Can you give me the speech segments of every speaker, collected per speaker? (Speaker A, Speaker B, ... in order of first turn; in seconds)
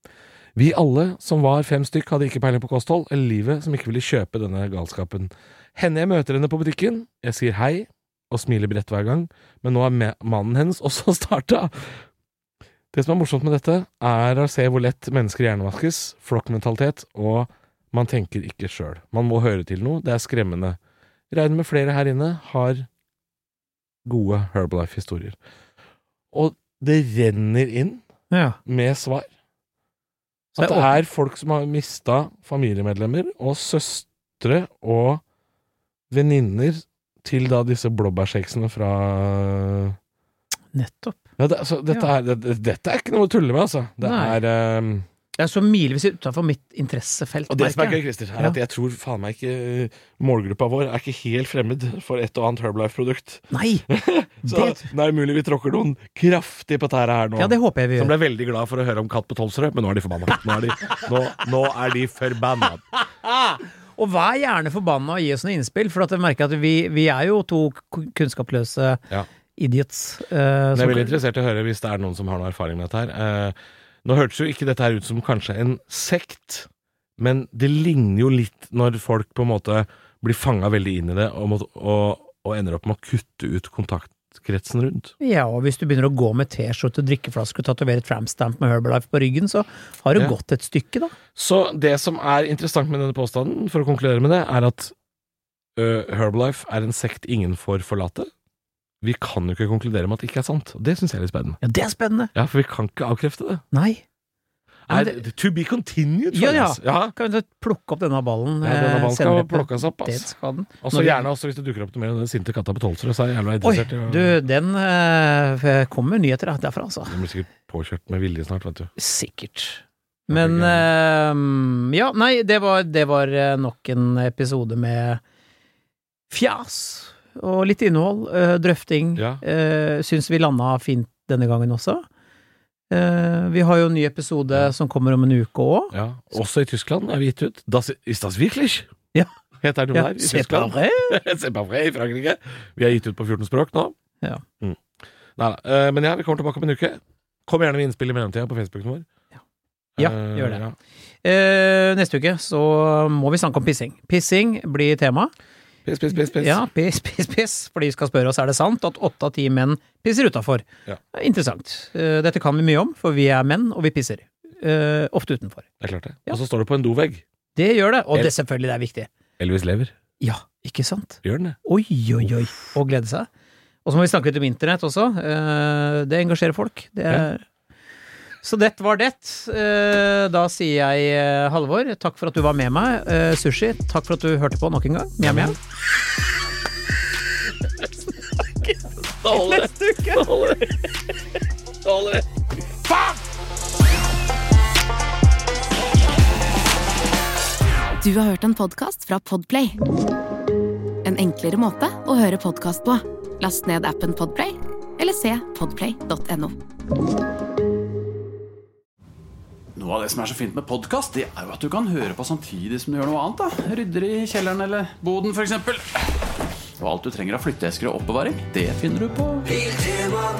Speaker A: 0.5-12.0, 12.9-20.8, 21.3-22.9, 24.0-25.4, 26.3-28.0, 28.6-29.3, 30.6-35.2, 36.1-40.0, 41.4-45.1, 47.5-62.8, 70.7-76.7, 77.2-85.1, 91.3-94.9, 95.8-98.3, 99.0-101.6, 102.3-103.6, 104.9-107.1, 108.6-114.4, 117.1-118.9, 120.3-120.8, 129.2-129.4, 135.9-138.9, 139.6-143.9, 145.3-149.1, 150.0-150.7, 155.8-156.7, 165.8-167.2, 169.4-169.9, 171.2-171.6, 185.2-185.6, 189.2-190.7, 191.8-192.2
Speaker B: 28.3-28.6, 30.5-30.9, 40.7-41.2, 44.0-44.4, 45.4-48.6, 53.5-53.9, 54.4-54.9, 57.4-58.1, 63.0-69.0, 69.6-71.1, 85.2-91.1, 101.6-102.3, 103.7-104.0, 104.9-105.2, 106.3-111.2, 113.6-117.2, 119.0-125.2, 126.3-132.1, 132.9-135.9, 139.9-141.2, 150.0-150.6, 151.2-155.3, 156.1-165.7, 167.6-169.1, 170.2-173.3, 173.8-177.4, 178.4-185.6, 189.3-190.3
Speaker C: 198.0-199.8, 201.0-206.5
Speaker D: 209.7-216.0, 216.8-219.8